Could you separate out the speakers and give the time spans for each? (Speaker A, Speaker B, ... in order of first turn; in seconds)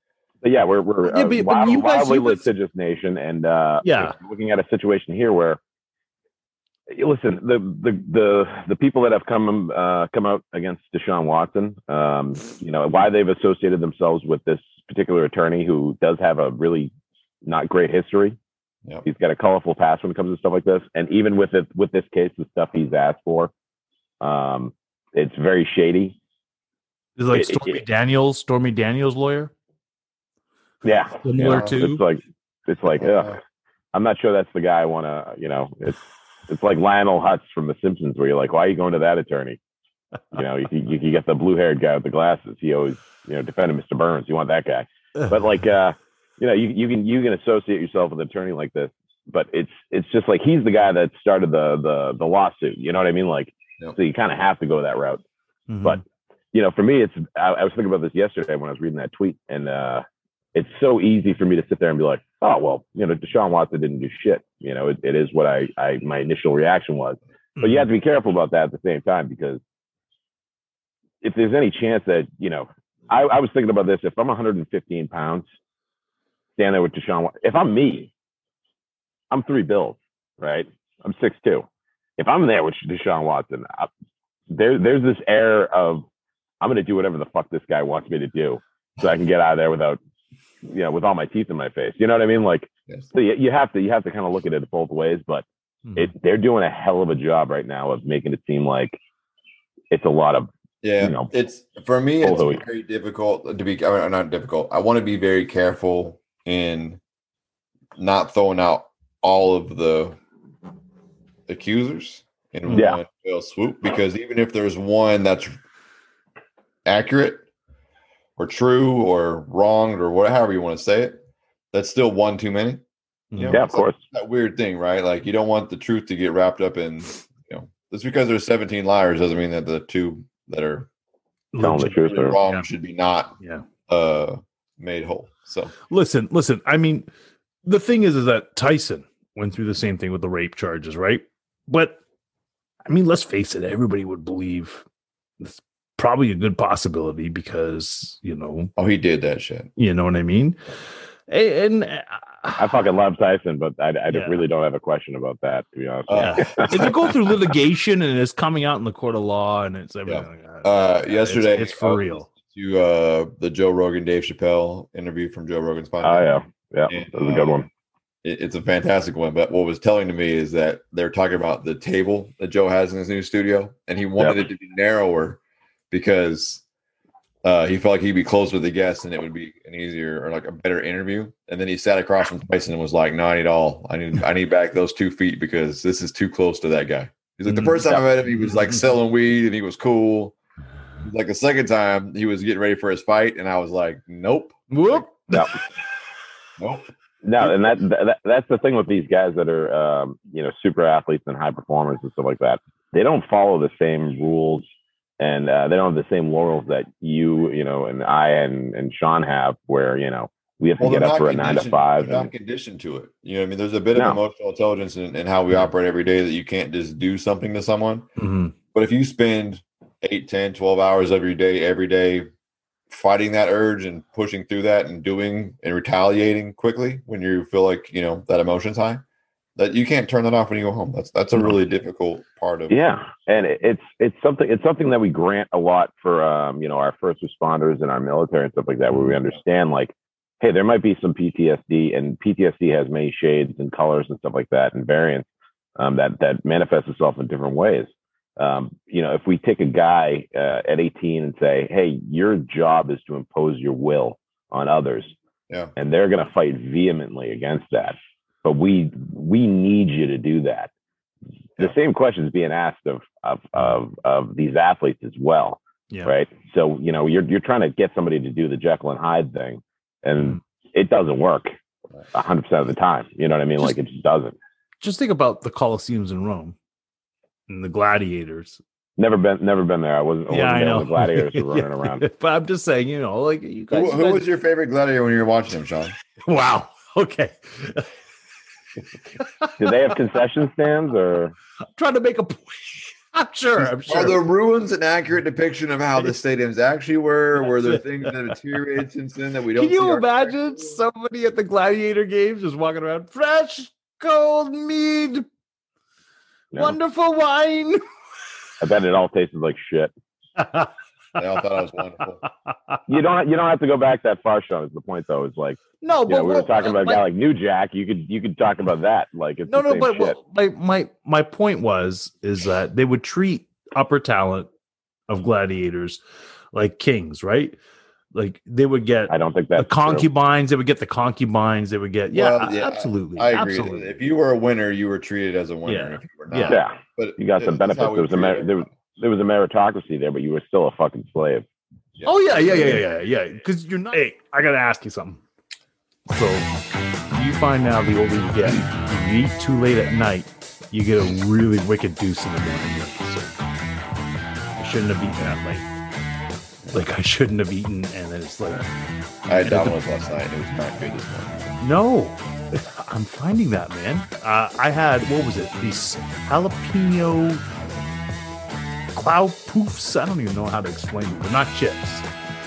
Speaker A: 0.4-5.6, 6.9-16.9, 17.4-18.4, 19.1-23.5, 24.2-26.2, 27.3-27.8, 30.8-33.4, 33.9-39.6, 40.3-55.2, 56.5-69.6, 71.2-75.4, 76.6-78.1, 79.3-81.7, 82.2-83.9, 84.5-86.0, 86.6-90.0, 90.6-95.5, 96.0-99.0, 99.9-101.3, 102.2-102.6, 112.7-113.0, 123.5-124.0, 131.6-132.4, 152.6-157.0, 166.0-167.7, 197.2-204.6, 205.2-212.3, 232.7-255.1, 255.8-260.7, 261.6-271.5, 272.1-274.4, 279.0-282.1, 289.6-291.3, 308.6-309.9, 312.9-320.2, 329.1-330.1, 336.5-341.4
Speaker B: 1.1-2.5, 3.8-4.2, 27.2-29.5, 31.2-32.0, 55.7-56.0, 67.6-67.9, 95.8-96.1, 123.3-123.6, 131.5-132.7, 135.9-137.1, 137.6-142.0, 142.9-144.8, 145.4-148.7, 149.8-150.6, 151.3-152.8, 154.1-154.4, 156.2-162.3, 187.5-188.6, 194.7-195.6, 218.2-218.5, 274.8-276.6, 277.5-278.6, 280.3-284.3, 286.2-287.9, 289.2-289.7, 291.8-294.2, 297.5-298.1, 299.6-305.3, 306.6-307.8, 310.4-310.7, 312.5-312.8, 315.8-317.0, 319.5-324.5, 325.1-326.0, 326.5-327.6, 328.1-333.9, 335.7-336.6, 342.1-345.2, 346.1-346.5, 347.1-353.3, 354.6-355.7, 356.7-358.7, 359.4-359.8, 361.6-367.4, 368.9-372.1
Speaker C: 31.4-31.7, 32.9-33.4, 100.8-107.0, 108.0-110.2, 111.5-115.6, 116.8-117.5, 118.4-121.2, 121.7-122.8, 123.3-130.9, 131.9-133.4, 133.9-135.7, 148.8-149.7, 156.1-157.1, 160.1-166.3, 166.9-167.7, 168.2-175.4, 175.9-176.6, 177.4-190.3, 191.0-195.1, 196.6-196.9, 197.4-197.8, 210.8-218.1, 218.7-222.3, 222.9-229.0, 229.6-232.8, 238.9-239.2, 283.7-286.0, 293.7-300.8, 311.2-312.2, 332.1-338.7, 342.0-342.8, 359.3-361.6